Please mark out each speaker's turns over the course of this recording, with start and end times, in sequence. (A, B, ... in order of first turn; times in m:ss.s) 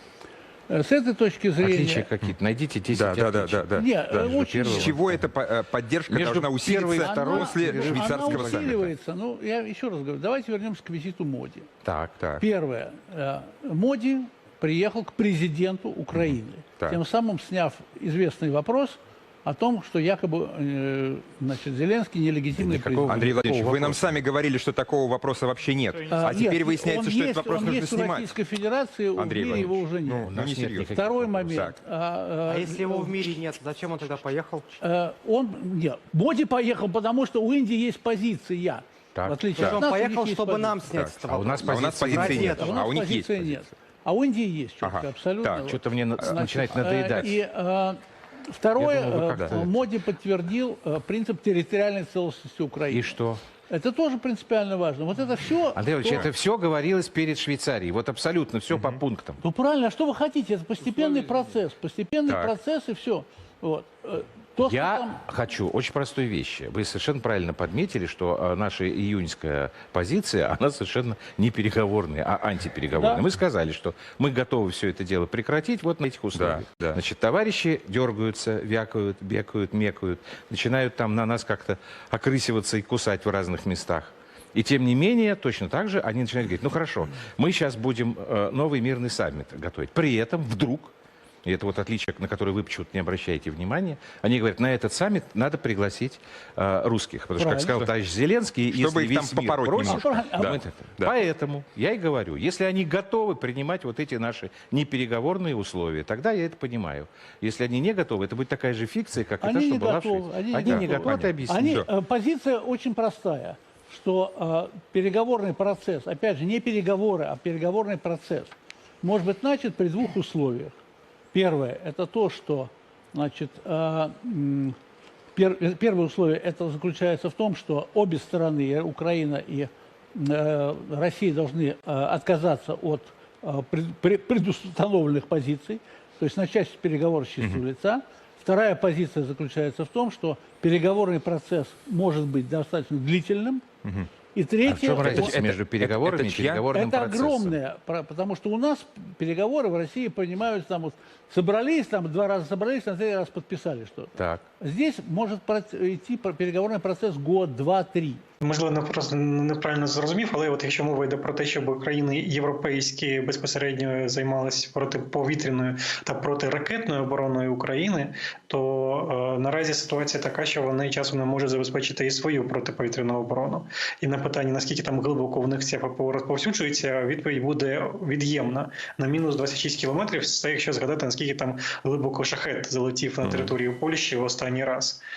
0:00.7-0:02.1 A
0:01.6-0:05.3 B
0:02.9-0:03.9 C
0:03.8-0:05.0 A
0:04.6-0:08.9 C
0:06.1-0:08.8 B
0:06.6-0:11.7 A
0:11.8-0:12.2 B
0:12.4-0:23.9 A
0:22.6-0:24.1 B
0:23.0-0:28.4 C
0:26.1-0:33.2 A
0:29.2-0:31.8 C
0:30.2-0:31.6 B
0:32.5-0:34.8 D
0:34.8-0:40.8 A
0:39.1-0:39.5 B
0:39.6-0:42.7 D
0:40.9-0:43.7 C
0:41.2-0:42.6 B
0:41.8-0:53.2 A
0:44.8-0:45.6 C
0:45.6-0:47.3 B
0:48.8-0:49.8 B
0:52.9-0:53.4 B
0:53.7-0:56.3 A
0:55.7-0:59.4 B
0:59.4-1:05.2 A
1:02.3-1:02.5 B
1:04.6-1:30.9 B
1:12.9-1:13.2 A
1:16.3-1:17.0 C
1:31.4-1:51.6 B
1:37.4-1:37.8 A
1:38.7-1:41.2 C
1:39.8-1:40.6 A
1:49.4-2:00.8 A
1:50.7-1:51.8 C
2:01.3-2:04.8 A
2:05.3-2:23.6 A
2:23.8-2:24.1 C
2:24.3-2:25.4 A
2:24.6-2:27.6 B
2:25.0-2:26.6 C
2:26.7-2:38.2 A
2:34.2-2:34.4 B
2:38.4-3:05.0 E